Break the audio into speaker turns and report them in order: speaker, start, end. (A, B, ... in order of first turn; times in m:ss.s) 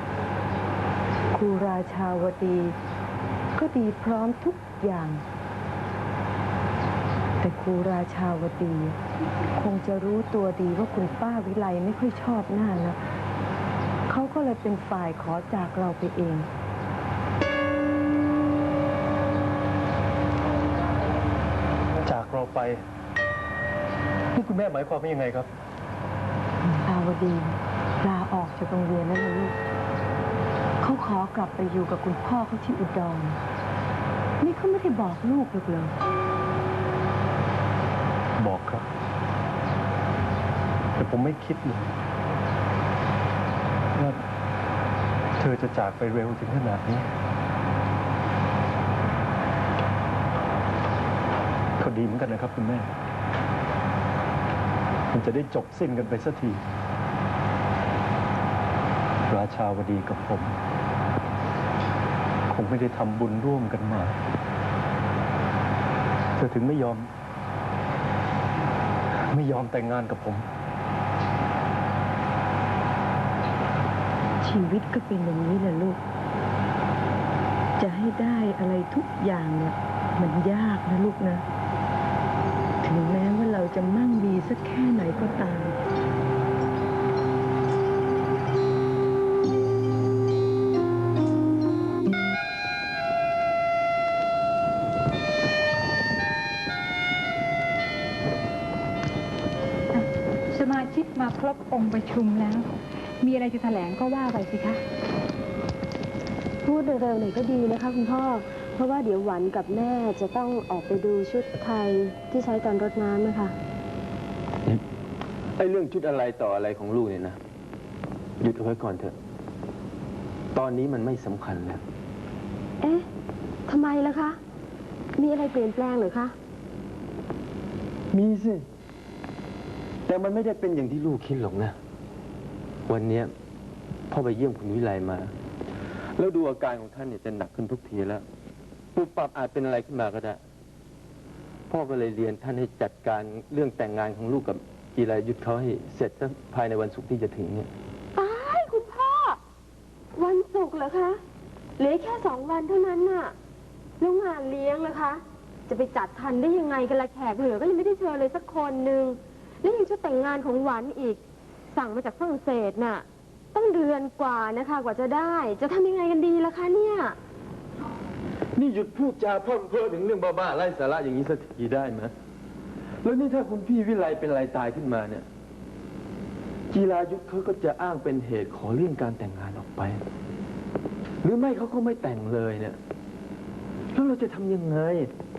0:01.3-0:02.8 A
0:03.5-0:05.2 A
0:07.4-0:09.0 A
0:09.5-0:13.0 A
0:14.1-0:16.5 A
0:21.9-0:22.8 B
0:24.3-0:25.5 B
0:26.8-0:29.5 A
0:30.8-0:33.4 A
0:34.4-0:35.9 A
0:38.4-0:38.8 B
0:41.0-0:41.9 B
0:43.9-0:44.2 B
0:45.4-0:47.0 B
0:51.8-0:52.9 B
0:55.1-0:56.6 B
0:59.3-1:00.6 B
1:02.5-1:04.1 B
1:06.4-1:07.1 B
1:09.3-1:10.4 B
1:14.4-1:16.0 A
1:17.8-1:21.4 A
1:22.8-1:25.8 A
1:39.9-1:42.7 C
1:43.2-1:44.8 C
1:46.6-1:53.5 D
1:55.6-1:57.4 E
1:58.4-1:59.1 E
2:00.5-2:01.8 E
2:02.8-2:03.0 D
2:03.7-2:04.4 D
2:05.2-2:06.3 D
2:08.1-2:08.6 E
2:10.1-2:11.8 E
2:12.9-2:13.3 E
2:14.1-2:15.3 E
2:16.2-2:18.2 E
2:18.9-2:20.4 E
2:21.7-2:27.7 E
2:28.1-2:29.4 D
2:30.1-2:31.2 D
2:31.8-2:33.3 D
2:34.0-2:47.2 D
2:48.6-2:52.1 E
2:53.0-2:55.2 E
2:56.7-3:00.0 E
3:01.2-3:02.8 E
3:03.9-3:05.1 E